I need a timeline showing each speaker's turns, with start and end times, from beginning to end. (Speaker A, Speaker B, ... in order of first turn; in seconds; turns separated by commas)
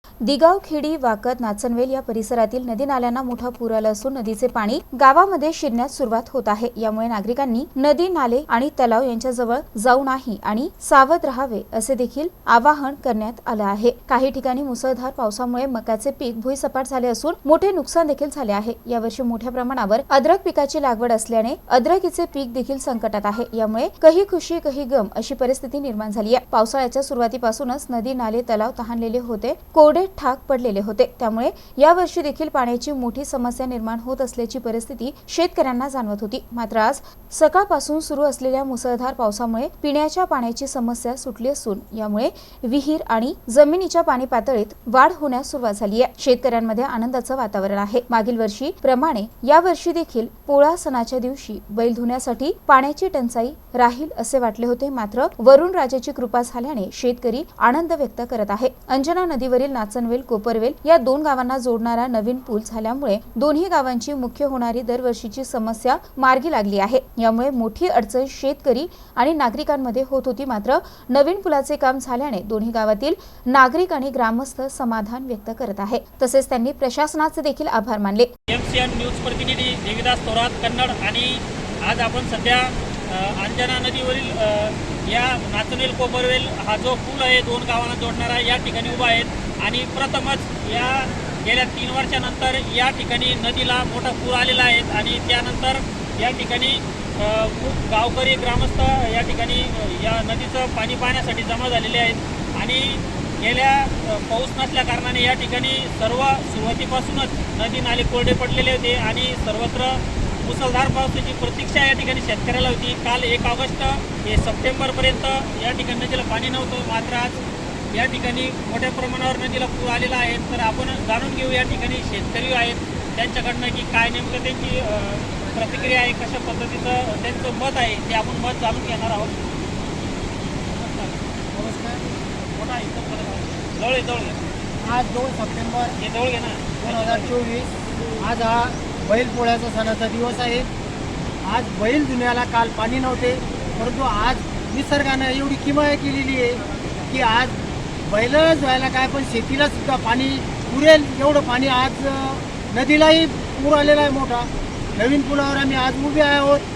Speaker A: 0.2-78.3, Speaker B: 78.5-117.4, Speaker B: 117.9-129.3, Speaker B: 130.7-131.2, Speaker C: 131.5-132.0, Speaker B: 132.5-134.4, Speaker C: 134.8-136.0, Speaker B: 136.0-137.3, Speaker C: 136.8-140.7, Speaker C: 141.4-156.6